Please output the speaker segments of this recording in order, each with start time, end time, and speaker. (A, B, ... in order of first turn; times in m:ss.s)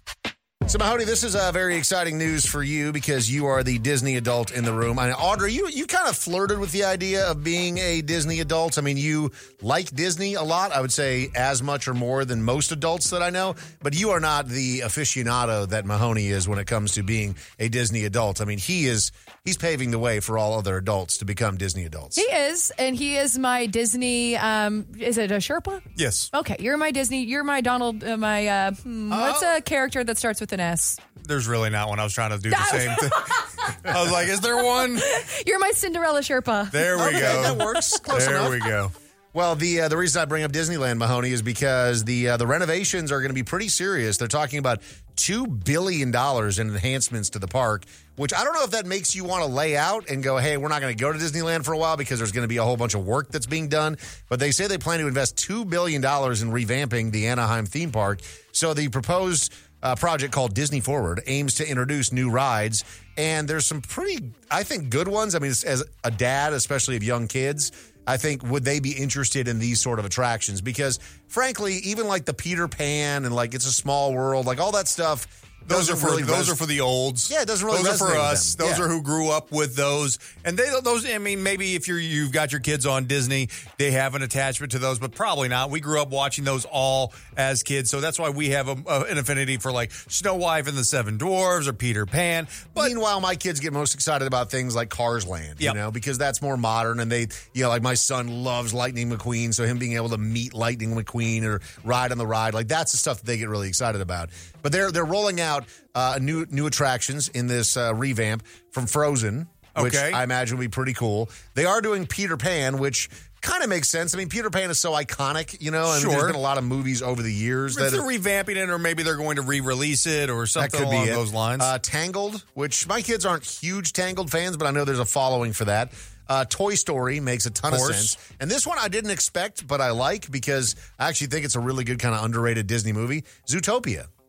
0:00.7-0:22.2 A
0:22.2-0:31.0 B
0:26.0-0:26.3 C
0:29.1-0:29.6 A
0:31.2-0:33.3 C
0:32.5-0:33.4 B
0:33.9-0:35.1 C
0:34.7-0:37.5 B
0:36.7-0:38.9 C
0:37.0-0:38.7 A
0:39.3-1:16.6 A
1:15.7-1:32.8 C
1:17.3-1:18.9 A
1:32.8-1:58.0 A
1:49.8-1:50.2 C
1:55.9-1:56.4 C
1:57.7-2:01.7 C
2:00.6-2:14.1 A
2:07.7-2:08.2 C